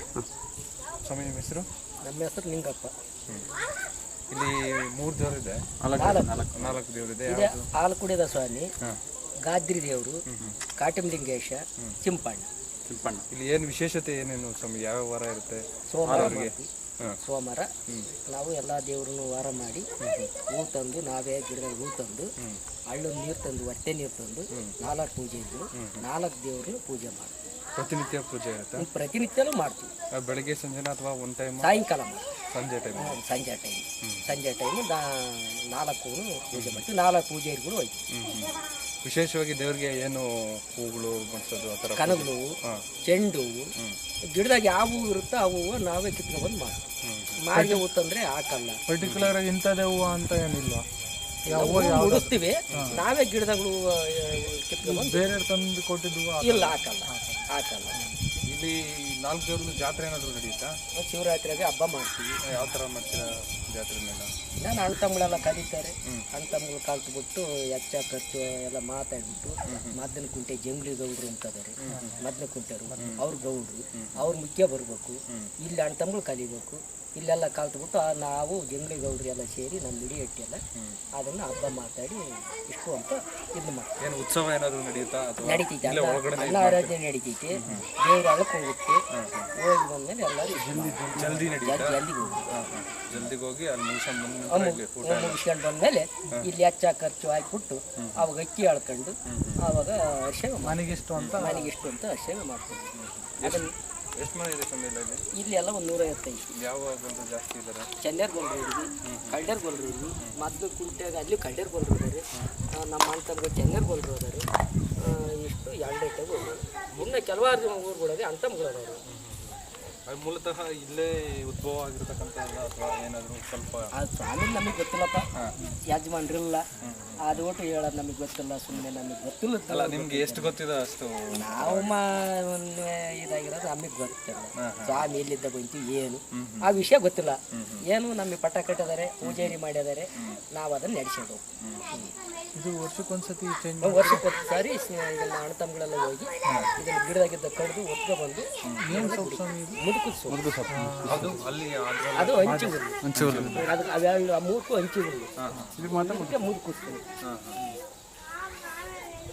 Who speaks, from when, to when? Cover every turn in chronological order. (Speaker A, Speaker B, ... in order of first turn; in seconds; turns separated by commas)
Speaker A: 1.0-1.7, Speaker B: 2.0-2.9, Speaker A: 4.3-7.7, Speaker C: 5.8-6.8, Speaker B: 6.0-6.4, Speaker B: 7.3-8.7, Speaker B: 9.5-10.2, Speaker B: 10.8-12.4, Speaker C: 12.9-13.2, Speaker A: 13.3-15.6, Speaker B: 15.9-16.7, Speaker C: 16.1-16.4, Speaker A: 16.1-17.2, Speaker B: 17.2-17.7, Speaker B: 18.3-19.9, Speaker A: 20.0-20.3, Speaker B: 20.5-22.3, Speaker B: 22.9-27.3, Speaker A: 25.8-26.0, Speaker A: 27.7-28.9, Speaker B: 28.8-29.9, Speaker A: 30.2-31.7, Speaker B: 31.6-32.2, Speaker A: 32.5-33.2, Speaker B: 33.0-38.0, Speaker A: 36.5-36.8, Speaker A: 38.1-42.8, Speaker B: 42.0-42.4, Speaker B: 43.1-43.7, Speaker B: 44.4-46.8, Speaker A: 47.0-47.4, Speaker B: 47.5-48.8, Speaker D: 47.5-47.8, Speaker D: 48.9-50.8, Speaker A: 49.0-49.3, Speaker D: 51.5-53.0, Speaker B: 51.5-55.2, Speaker A: 52.7-53.0, Speaker D: 54.8-58.1, Speaker B: 56.4-58.0, Speaker A: 58.4-60.7, Speaker B: 61.0-62.3, Speaker A: 62.4-64.3, Speaker B: 64.6-80.6, Speaker A: 69.7-69.9, Speaker A: 71.8-72.2, Speaker D: 71.9-72.2, Speaker A: 72.9-73.2, Speaker B: 81.2-83.9, Speaker A: 84.0-86.9, Speaker B: 85.5-89.0, Speaker A: 87.5-87.9, Speaker A: 89.1-89.5, Speaker B: 89.6-92.7, Speaker D: 90.6-91.5, Speaker A: 91.1-95.4, Speaker B: 94.5-102.8, Speaker A: 98.0-98.3, Speaker A: 99.3-99.6, Speaker D: 100.6-101.7, Speaker A: 101.2-101.4, Speaker A: 102.7-103.7, Speaker B: 103.4-103.7, Speaker A: 104.2-105.2, Speaker B: 105.3-106.4, Speaker A: 106.5-107.9, Speaker B: 108.0-112.2, Speaker A: 109.0-109.4, Speaker B: 112.8-114.4, Speaker B: 115.0-119.0, Speaker A: 119.1-123.9, Speaker B: 123.9-125.3, Speaker B: 125.9-126.7, Speaker A: 126.8-127.5, Speaker B: 127.2-130.6, Speaker A: 129.7-131.9, Speaker B: 131.3-137.4, Speaker A: 134.6-135.1, Speaker A: 136.3-136.7, Speaker A: 137.5-137.8, Speaker B: 137.9-142.1, Speaker A: 139.2-139.6, Speaker A: 141.6-142.1, Speaker D: 142.6-144.2, Speaker B: 143.8-150.4, Speaker A: 146.5-146.7, Speaker A: 148.6-148.9, Speaker D: 148.8-149.8, Speaker C: 150.3-151.5, Speaker D: 150.7-151.3, Speaker A: 151.0-153.6, Speaker B: 152.2-153.0, Speaker D: 152.4-153.7, Speaker C: 153.0-153.6, Speaker B: 153.5-155.3, Speaker A: 155.4-155.8, Speaker C: 155.7-156.5, Speaker B: 155.9-157.0, Speaker A: 157.2-157.6